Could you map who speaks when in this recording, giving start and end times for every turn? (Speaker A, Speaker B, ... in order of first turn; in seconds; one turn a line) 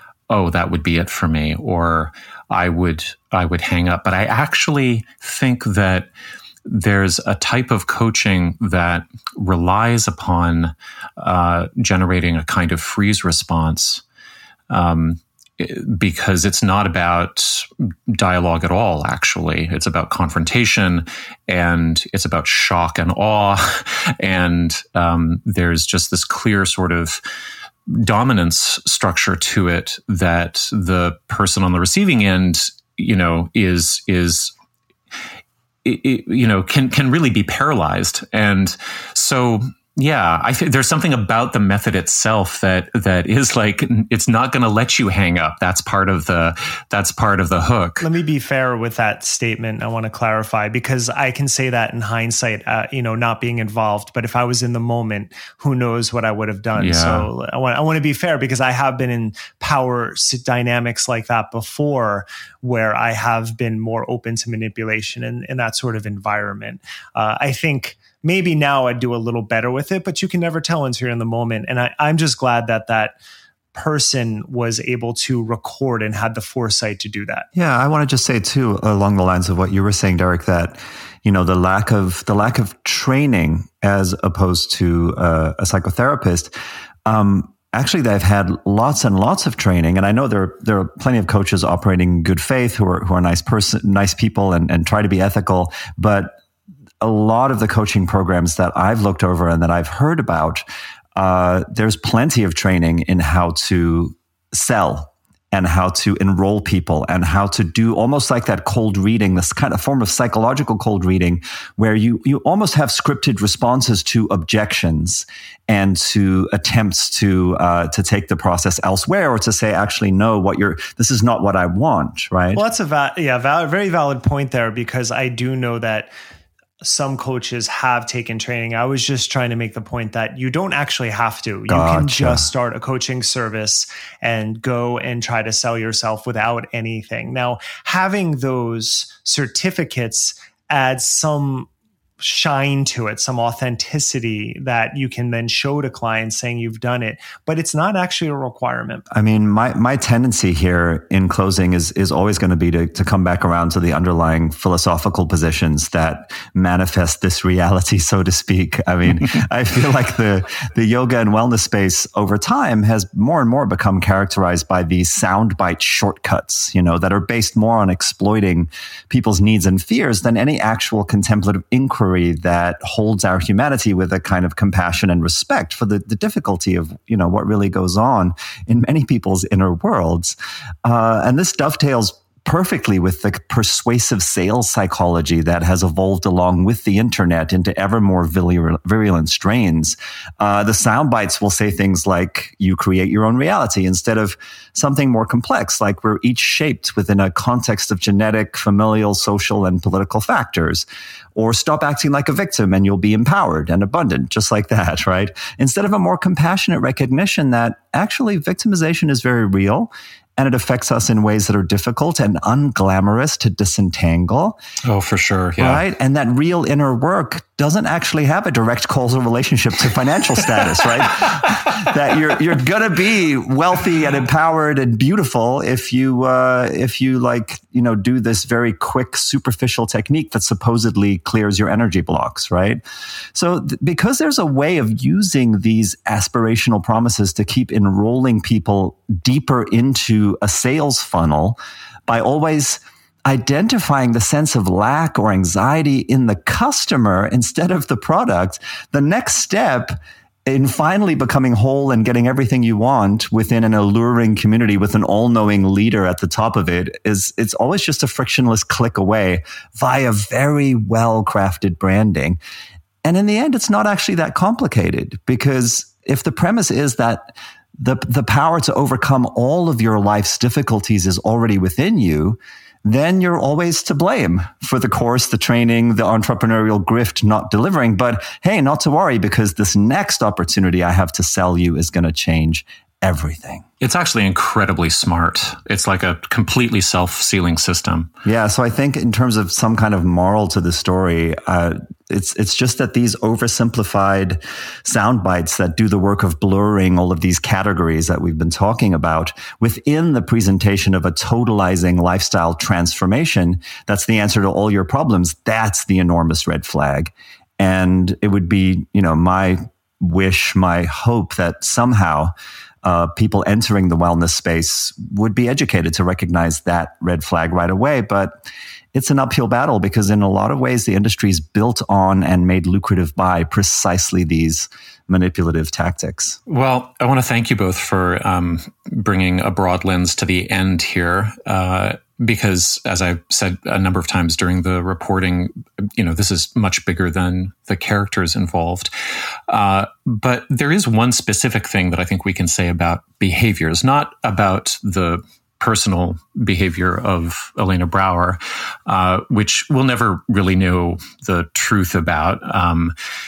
Speaker A: 0.3-6.1
Speaker A: 6.6-14.0
Speaker A: 14.7-27.2
Speaker A: 27.9-34.5
Speaker A: 35.8-48.1
Speaker B: 48.0-73.2
Speaker A: 56.7-57.3
Speaker B: 73.7-77.5
Speaker C: 77.5-86.5
Speaker C: 87.0-96.3
Speaker C: 97.0-100.6
Speaker C: 101.2-122.6
Speaker B: 122.5-126.1
Speaker B: 126.8-141.7
Speaker C: 131.7-132.5
Speaker B: 142.2-149.0
Speaker C: 149.1-214.6
Speaker A: 214.8-215.8
Speaker C: 215.6-232.8
Speaker C: 233.3-262.4
Speaker C: 263.0-283.6
Speaker A: 283.8-288.1
Speaker C: 288.2-312.3
Speaker C: 312.8-326.4
Speaker A: 326.5-338.9
Speaker A: 339.5-352.9